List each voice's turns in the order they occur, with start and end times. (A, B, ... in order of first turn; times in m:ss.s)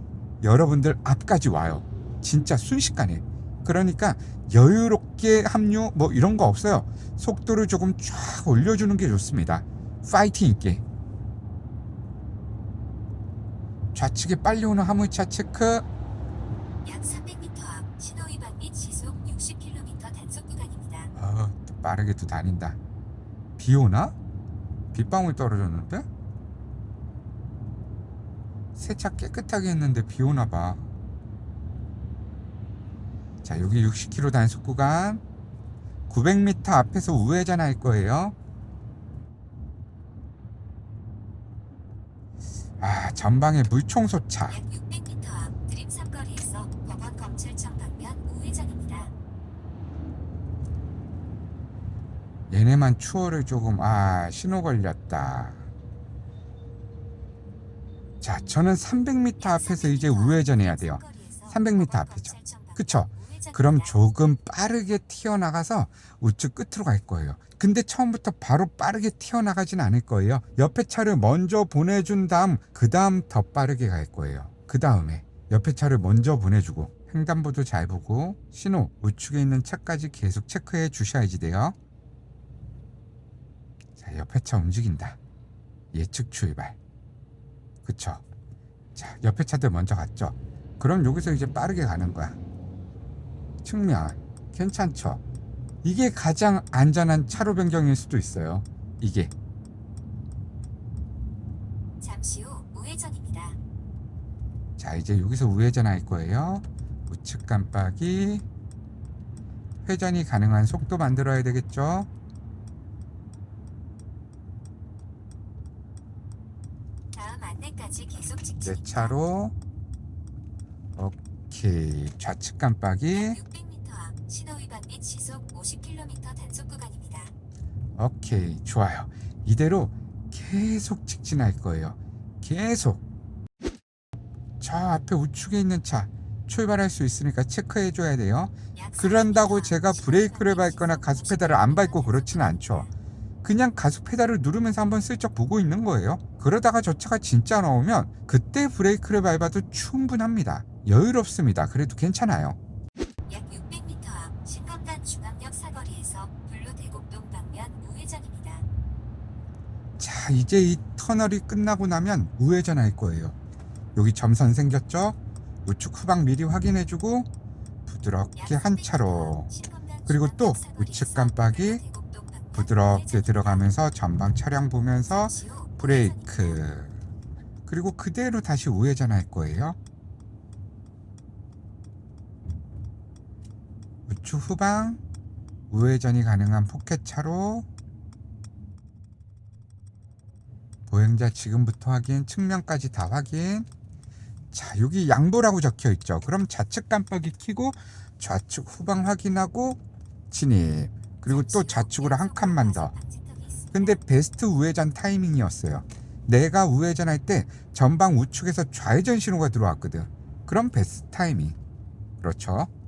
0:00.4-0:10.8 A
0:13.9-0:15.8 A
0:16.8-0:21.1 B
0:21.1-0:22.8 A
0:23.6-0:24.1 A
0:24.9-0:26.0 A
0:28.7-0:30.9 A
0:33.4-0:35.2 A
0:36.1-0:38.3 A
0:42.8-0:44.6 A
0:44.5-0:49.1 B
0:52.5-0:55.6 A
0:58.2-1:21.8 A
0:59.4-1:04.0 B
1:24.0-1:25.2 A
1:25.9-1:26.8 A
1:27.8-1:28.2 A
1:28.9-1:32.4 A
1:33.6-1:35.2 A
1:35.8-1:39.3 A
1:42.0-1:43.6 B
1:44.8-1:48.4 A
1:49.8-1:52.1 A
1:57.1-1:59.2 B
1:58.6-1:59.5 A
2:01.0-2:03.4 A
2:03.1-2:07.3 B
2:07.9-2:13.0 A
2:14.6-2:22.9 A
2:18.7-2:22.9 B
2:23.4-2:32.6 A
2:33.3-2:38.7 B
2:40.0-2:43.4 A
2:43.9-2:47.3 A
2:47.8-2:49.5 A
2:48.3-2:53.7 B
2:50.0-2:51.8 A
2:52.5-2:57.0 A
2:55.1-2:56.6 B
2:57.6-2:59.8 A
3:04.1-3:05.0 A
3:05.7-3:07.6 A
3:10.9-3:13.7 A
3:14.5-3:19.8 A
3:20.3-3:22.9 A
3:21.2-3:24.0 B
3:23.7-3:31.6 A
3:32.2-3:32.7 A